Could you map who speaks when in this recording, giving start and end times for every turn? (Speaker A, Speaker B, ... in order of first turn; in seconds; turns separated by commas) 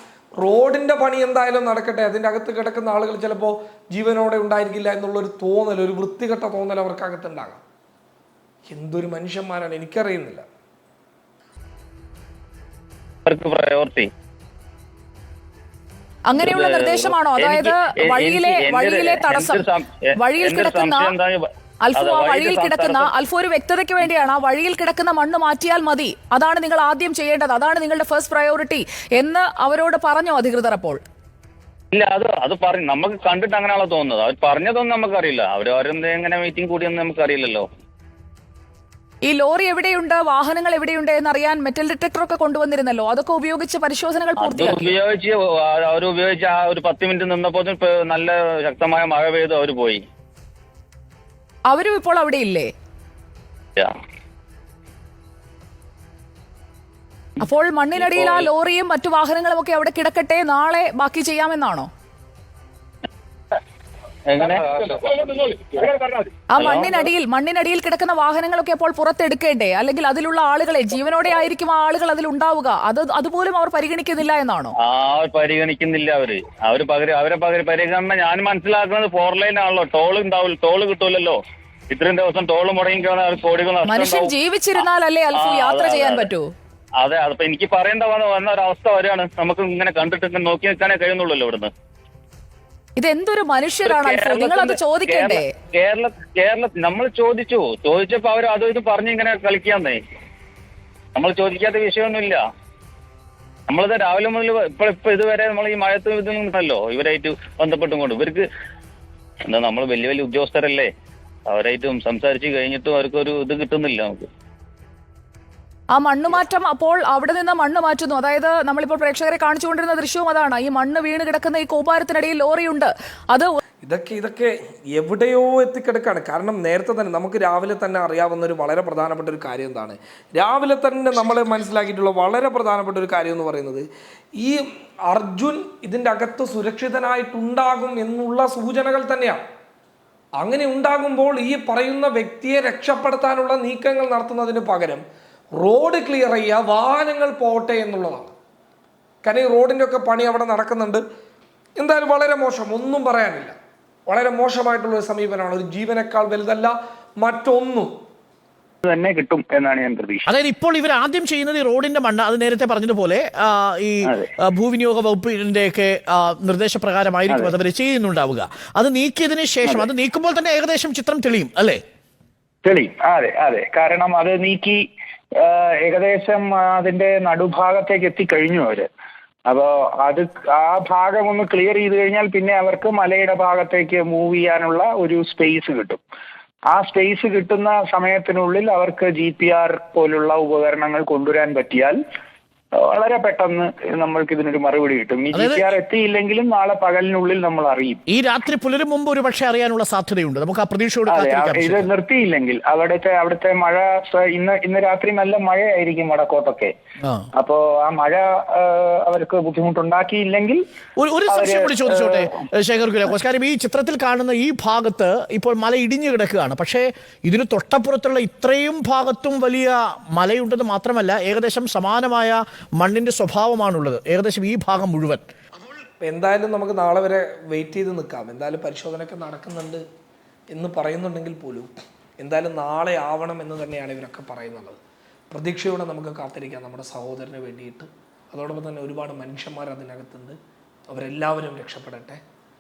Speaker A: 0.4-7.6, Speaker A: 8.7-10.4, Speaker B: 13.3-14.1, Speaker C: 16.4-19.6, Speaker B: 16.4-21.4, Speaker C: 20.2-21.1, Speaker C: 21.9-31.0, Speaker B: 21.9-23.1, Speaker B: 31.9-37.7, Speaker C: 39.3-44.9, Speaker B: 44.4-50.0, Speaker C: 51.7-52.6, Speaker C: 57.4-61.9, Speaker B: 58.0-58.5, Speaker B: 64.3-67.1, Speaker C: 66.6-74.7, Speaker B: 74.8-81.4, Speaker B: 81.9-84.3, Speaker C: 83.9-86.4, Speaker B: 85.4-86.3, Speaker B: 87.0-91.7, Speaker C: 93.0-95.5, Speaker B: 93.9-100.0, Speaker B: 101.2-102.4, Speaker B: 103.7-108.5, Speaker B: 109.5-110.9, Speaker B: 111.5-114.3, Speaker C: 116.0-123.6, Speaker A: 123.8-133.9, Speaker A: 134.4-139.4, Speaker A: 140.4-145.0, Speaker A: 145.6-148.3, Speaker A: 149.2-151.0, Speaker A: 151.8-153.6, Speaker A: 154.1-157.9, Speaker D: 158.8-160.3, Speaker E: 160.3-171.8, Speaker D: 172.6-174.8, Speaker D: 175.4-178.9, Speaker D: 179.5-186.0, Speaker D: 186.7-192.0, Speaker D: 192.9-198.0, Speaker E: 195.3-195.7, Speaker E: 198.1-201.9, Speaker D: 201.1-206.7, Speaker D: 207.4-210.6, Speaker E: 211.0-225.2, Speaker D: 211.3-212.3, Speaker A: 226.0-229.8, Speaker A: 230.5-234.8, Speaker A: 235.3-240.4, Speaker A: 240.9-242.2